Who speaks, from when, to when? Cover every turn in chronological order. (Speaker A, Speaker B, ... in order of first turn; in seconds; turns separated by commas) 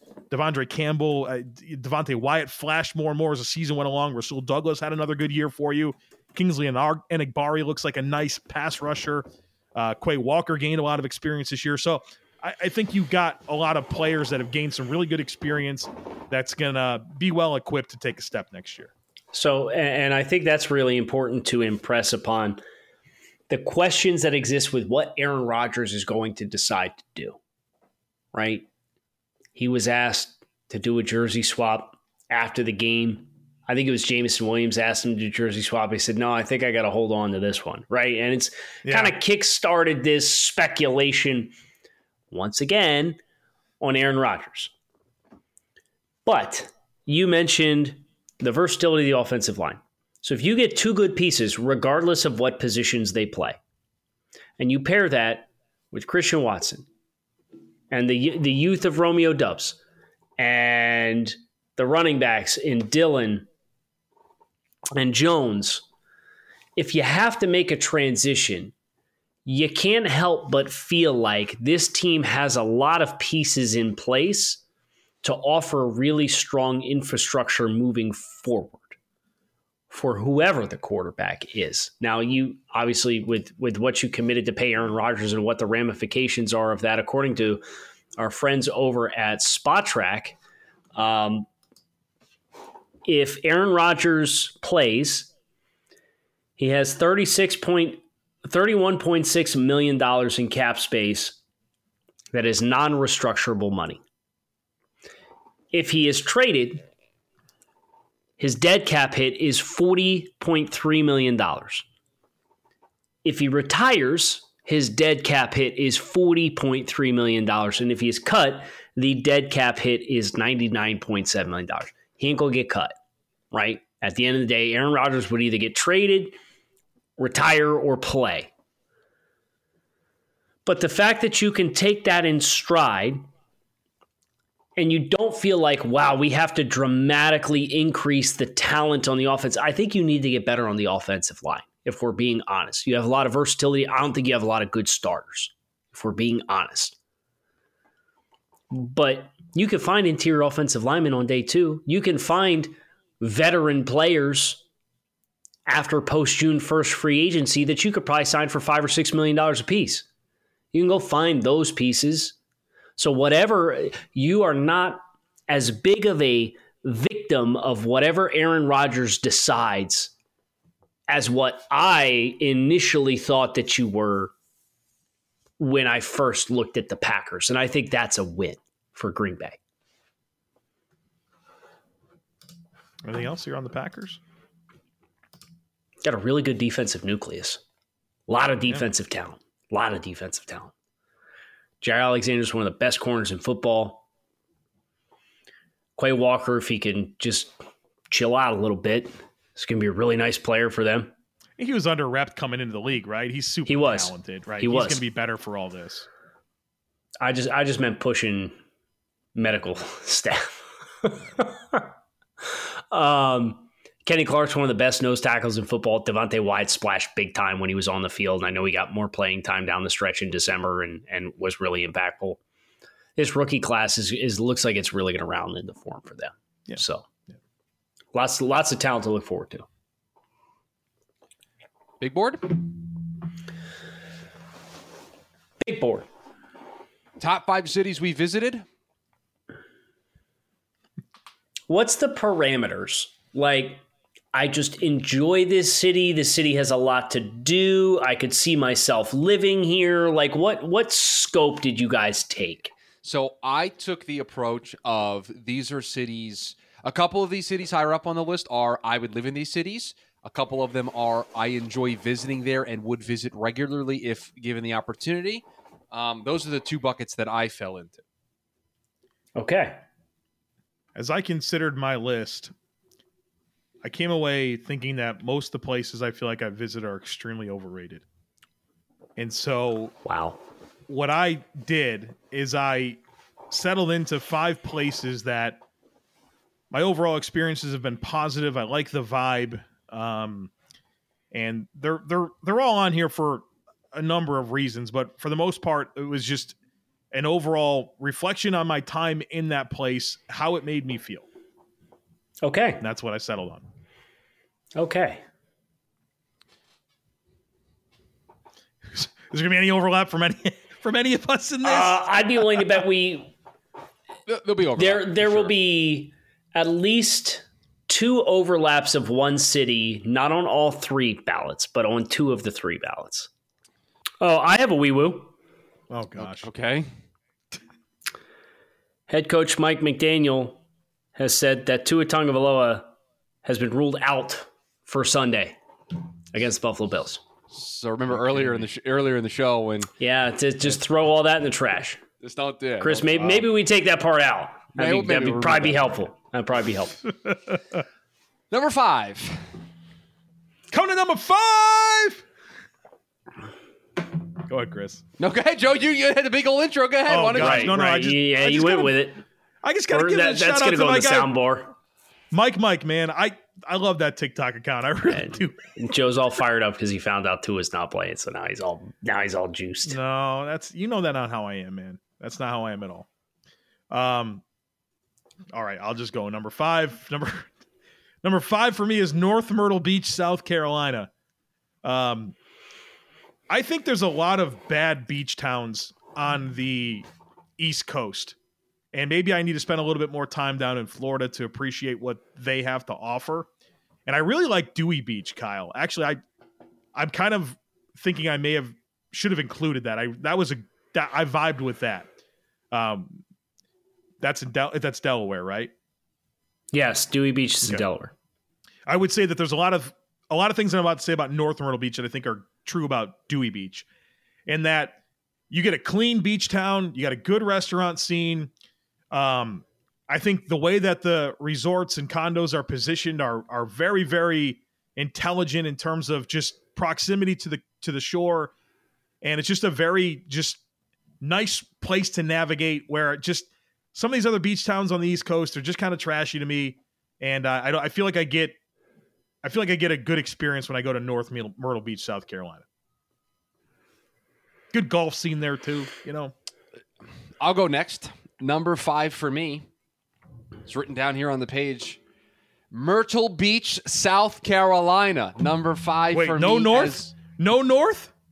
Speaker A: 0.3-18.9, Speaker B: 19.3-22.6, Speaker B: 23.5-27.4, Speaker B: 28.3-28.7, Speaker B: 29.6-41.5, Speaker A: 38.8-39.1, Speaker B: 42.3-43.2, Speaker B: 43.8-44.7, Speaker B: 46.2-53.6, Speaker B: 54.6-56.9, Speaker B: 57.9-59.8, Speaker B: 60.4-63.5, Speaker B: 64.9-65.8, Speaker B: 66.8-68.7, Speaker B: 69.4-74.6, Speaker B: 75.2-79.0, Speaker B: 79.9-87.6, Speaker B: 88.2-90.4, Speaker B: 90.9-91.5, Speaker B: 93.0-95.3, Speaker B: 96.6-101.4, Speaker B: 102.3-104.0, Speaker B: 105.7-106.8, Speaker B: 108.4-111.8, Speaker B: 113.2-123.0, Speaker B: 123.5-126.3, Speaker B: 127.2-128.5, Speaker B: 130.6-133.2, Speaker B: 134.8-146.9, Speaker B: 148.7-154.6, Speaker B: 155.7-160.1, Speaker B: 160.7-162.3, Speaker B: 163.0-170.1, Speaker B: 171.1-174.3, Speaker B: 175.6-179.6, Speaker A: 183.0-184.2, Speaker B: 186.0-187.6, Speaker B: 188.3-190.7, Speaker B: 191.8-194.0, Speaker B: 196.0-197.6, Speaker B: 198.1-201.1, Speaker A: 201.6-206.1, Speaker B: 203.7-205.0, Speaker B: 207.2-208.6, Speaker B: 209.3-211.9, Speaker B: 212.5-222.4, Speaker B: 223.2-227.1, Speaker B: 228.1-229.7, Speaker C: 232.0-232.7, Speaker B: 235.6-236.1, Speaker C: 237.2-238.6, Speaker B: 241.7-243.8, Speaker B: 244.3-252.7, Speaker C: 253.0-268.0, Speaker B: 269.4-269.8, Speaker A: 270.9-272.5, Speaker A: 273.8-278.0, Speaker A: 279.1-279.9, Speaker B: 280.0-280.4, Speaker A: 280.9-285.6, Speaker A: 286.7-290.5, Speaker A: 291.3-296.5, Speaker A: 297.1-301.3, Speaker B: 302.4-302.8, Speaker A: 302.8-303.6, Speaker B: 304.8-305.2, Speaker A: 308.9-312.6, Speaker B: 311.6-313.3, Speaker C: 314.3-315.6, Speaker B: 314.8-323.3, Speaker B: 324.2-325.3, Speaker A: 325.9-326.5, Speaker C: 326.3-326.9, Speaker B: 329.1-330.6, Speaker B: 331.1-335.6, Speaker B: 336.3-337.2, Speaker C: 337.5-339.9, Speaker B: 340.0-342.0, Speaker C: 342.2-343.5, Speaker B: 342.8-347.0, Speaker C: 344.8-346.1, Speaker A: 347.2-347.6, Speaker C: 348.5-349.4, Speaker A: 350.7-352.2, Speaker A: 354.4-355.0, Speaker C: 355.2-357.7, Speaker A: 357.1-359.0, Speaker B: 357.4-359.2, Speaker A: 359.6-361.3, Speaker B: 359.9-361.7, Speaker A: 362.3-365.6, Speaker B: 365.1-370.0, Speaker A: 369.9-373.1, Speaker A: 373.9-374.4, Speaker A: 375.5-377.5, Speaker A: 378.2-381.1, Speaker A: 381.8-382.4, Speaker A: 383.5-387.1, Speaker A: 387.6-388.4, Speaker A: 388.9-393.5, Speaker A: 394.1-396.2, Speaker A: 396.9-402.1, Speaker A: 402.7-403.2, Speaker A: 404.2-405.7, Speaker B: 406.7-408.1, Speaker A: 408.9-413.9, Speaker A: 414.4-415.0, Speaker A: 415.5-418.5, Speaker A: 419.1-428.5, Speaker A: 429.2-430.6, Speaker A: 431.2-438.6, Speaker A: 439.4-442.6, Speaker A: 444.7-446.3, Speaker C: 447.4-449.6, Speaker C: 450.6-452.0, Speaker C: 452.7-457.1, Speaker A: 456.1-458.1